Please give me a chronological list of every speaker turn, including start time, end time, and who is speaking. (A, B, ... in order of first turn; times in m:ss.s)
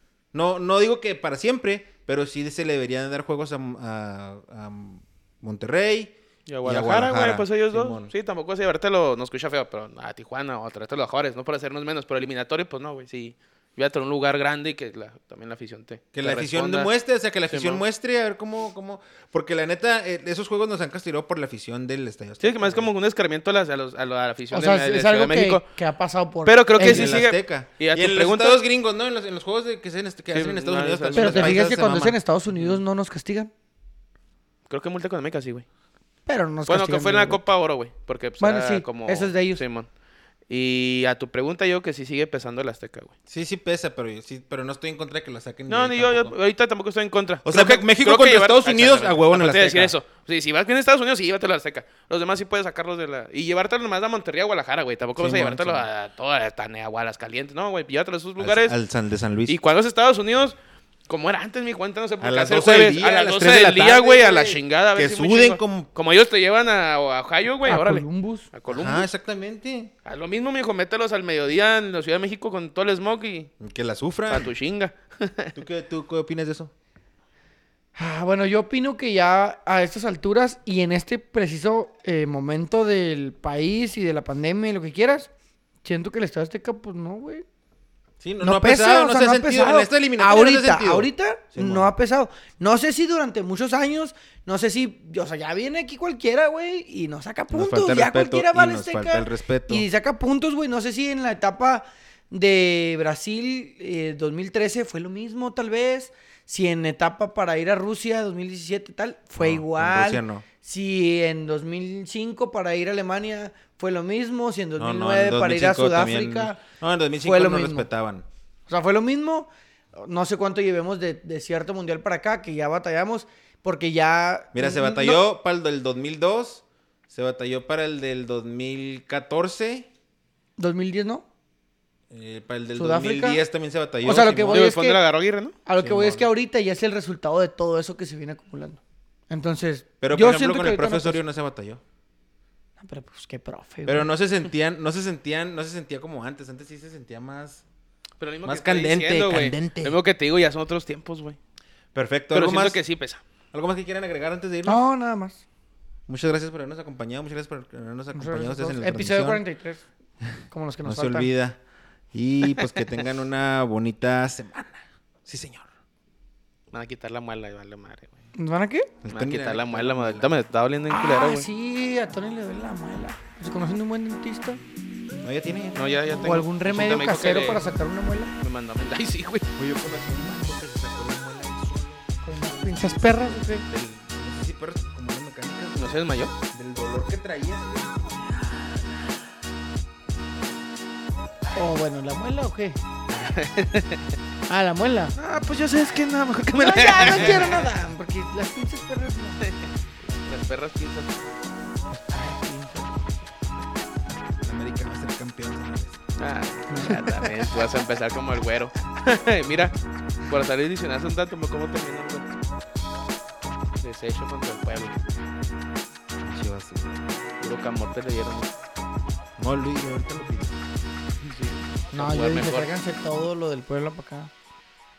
0:00.3-0:08.1 A
0:06.5-0:16.9 B
0:16.2-0:22.9 A
0:17.5-0:17.8 B
0:22.4-0:25.7 B
0:24.5-0:27.2 C
0:26.5-0:28.6 B
0:26.8-0:32.2 A
0:30.3-0:31.6 B
0:31.2-0:33.5 C
0:34.7-0:35.7 B
0:36.3-0:37.4 C
0:36.7-0:39.9 B
0:38.4-0:39.6 C
0:40.5-0:43.1 B
0:43.3-0:46.4 A
0:45.7-0:58.8 B
0:47.4-0:50.0 A
0:55.2-0:55.9 A
0:58.4-0:59.6 A
0:59.5-1:00.6 B
1:01.1-1:09.1 B
1:02.2-1:05.9 A
1:07.6-1:08.5 C
1:08.7-1:09.9 A
1:10.0-1:13.5 B
1:13.6-1:14.5 A
1:14.3-1:15.5 B
1:15.6-1:16.7 A
1:18.0-1:25.3 C
1:25.8-1:27.4 C
1:28.2-1:31.9 A
1:28.4-1:56.6 C
1:37.5-1:39.8 A
1:49.4-1:50.5 A
1:54.8-1:58.3 A
1:57.2-1:57.9 C
1:58.7-2:05.2 C
2:04.5-2:09.9 A
2:10.6-2:11.2 C
2:12.1-2:14.6 A
2:12.8-2:13.4 C
2:14.0-2:15.0 C
2:14.5-2:15.6 B
2:15.6-2:21.2 C
2:15.8-2:16.3 A
2:20.0-2:21.8 A
2:22.8-2:24.1 C
2:23.9-2:27.6 A
2:28.2-2:31.4 B
2:28.4-2:30.0 A
2:31.9-2:32.8 A
2:32.3-2:33.2 B
2:33.5-2:34.8 A
2:34.7-2:35.4 C
2:36.1-2:39.4 A
2:38.1-2:39.8 C
2:40.5-2:41.3 C
2:40.8-2:41.6 A
2:42.1-2:45.7 A
2:46.7-2:48.1 B
2:48.4-2:48.9 C
2:49.0-2:50.3 A
2:49.1-2:51.5 B
2:50.9-2:54.6 C
2:55.2-2:56.5 A
2:55.8-2:57.7 B
2:56.2-2:58.3 C
2:58.4-2:59.5 B
2:59.6-3:08.2 A
3:02.2-3:03.7 C
3:05.8-3:06.3 B
3:11.6-3:12.8 C
3:13.1-3:14.2 B
3:14.5-3:15.2 C
3:15.2-3:17.6 B
3:16.6-3:19.4 C
3:17.1-3:17.6 A
3:19.4-3:21.1 B
3:21.9-3:23.0 C
3:24.4-3:26.0 A
3:26.2-3:29.8 B
3:26.7-3:27.3 C
3:30.3-3:32.2 B
3:33.8-3:35.0 B
3:36.2-3:37.0 A
3:37.4-3:38.5 B
3:39.4-3:40.6 A
3:41.2-3:42.7 B
3:41.9-3:44.3 C